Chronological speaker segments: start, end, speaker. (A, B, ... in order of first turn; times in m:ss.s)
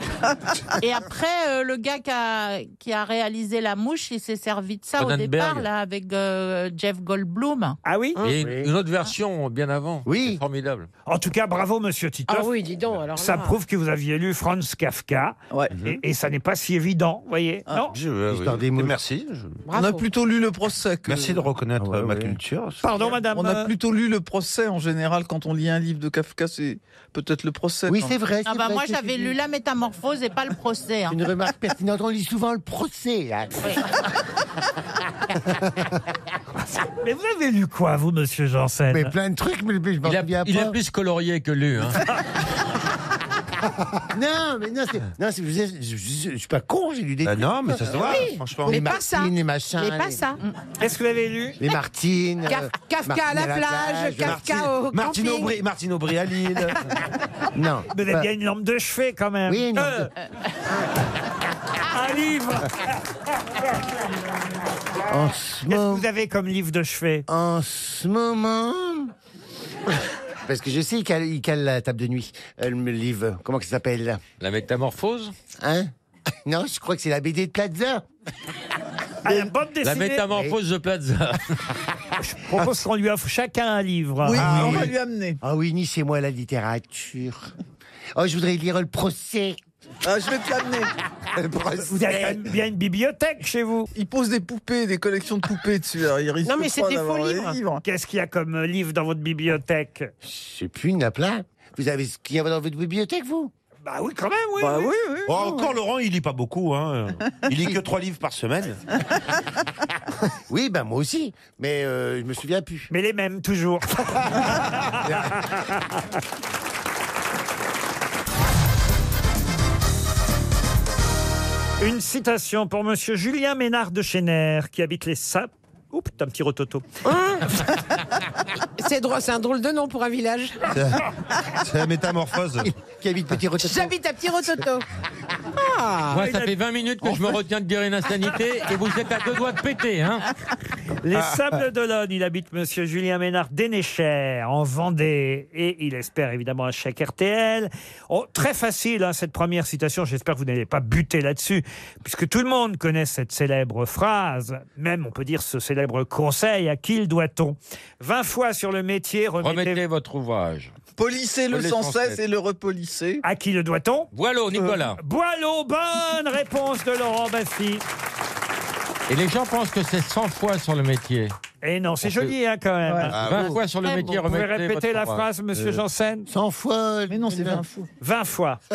0:00.8-0:07.8 A
0:05.0-0:05.7 B
0:07.8-0:08.2 C
0:08.2-0:10.9 B
0:08.3-0:08.7 D
0:10.1-0:10.4 D
0:11.1-0:12.5 C
0:12.3-0:13.5 E
0:13.2-0:17.9 C
0:17.9-0:19.6 F
0:18.3-0:19.0 D
0:19.7-0:20.0 E
0:19.7-0:21.4 G
0:21.0-0:22.9 F
0:21.8-0:22.4 D
0:22.8-0:23.7 C
0:23.2-0:28.2 G
0:27.9-0:29.4 D
0:28.4-0:31.2 A
0:31.1-0:33.8 D
0:35.5-0:35.9 D
0:37.0-0:39.1 C
0:38.9-0:40.8 D
0:40.0-0:42.0 B
0:44.1-0:50.2 D
0:47.2-0:48.9 F
0:47.9-0:50.4 E
0:50.8-0:51.6 C
0:51.6-0:54.7 D
0:52.4-0:55.5 E
0:54.2-0:56.8 F
0:57.5-0:58.3 D
0:57.9-1:00.1 C
0:59.5-1:00.1 D
1:01.9-1:02.9 C
1:05.1-1:06.1 D
1:05.7-1:07.3 C
1:07.3-1:09.1 D
1:10.4-1:14.2 D
1:14.4-1:15.3 B
1:15.6-1:15.9 D
1:16.4-1:18.1 D
1:19.2-1:20.2 C
1:19.8-1:21.6 B
1:22.2-1:24.8 C
1:24.2-1:25.4 G
1:24.4-1:25.0 F
1:24.4-1:27.5 D
1:28.2-1:29.6 D
1:30.0-1:30.9 G
1:31.3-1:32.4 F
1:31.9-1:33.9 C
1:34.0-1:37.8 G
1:36.4-1:37.6 E
1:37.8-1:40.1 C
1:40.2-1:43.5 D
1:43.8-1:44.9 C
1:44.6-1:45.5 G
1:45.3-1:48.8 F
1:45.3-1:45.7 D
1:50.5-1:52.9 D
1:52.9-1:56.0 C
1:54.9-1:55.4 F
2:01.8-2:06.9 C
2:07.0-2:07.5 E
2:08.8-2:10.6 E
2:10.7-2:12.7 F
2:12.6-2:14.0 D
2:13.6-2:14.8 E
2:15.6-2:16.2 E
2:16.1-2:16.5 C
2:16.1-2:20.3 B
2:21.0-2:39.8 C
2:21.1-2:21.6 F
2:39.4-2:40.7 B
2:41.0-2:43.2 G
2:41.5-2:42.2 B
2:43.2-2:44.1 C
2:44.1-2:45.0 B
2:45.0-2:47.8 C
2:49.1-2:51.3 B
2:51.6-2:53.2 C
2:52.0-2:52.3 B
2:52.9-2:53.2 G
2:53.1-2:53.6 F
2:53.2-2:55.2 B
2:54.0-2:56.3 C
2:56.3-2:57.6 D
2:57.1-2:57.9 G
2:58.0-2:58.6 C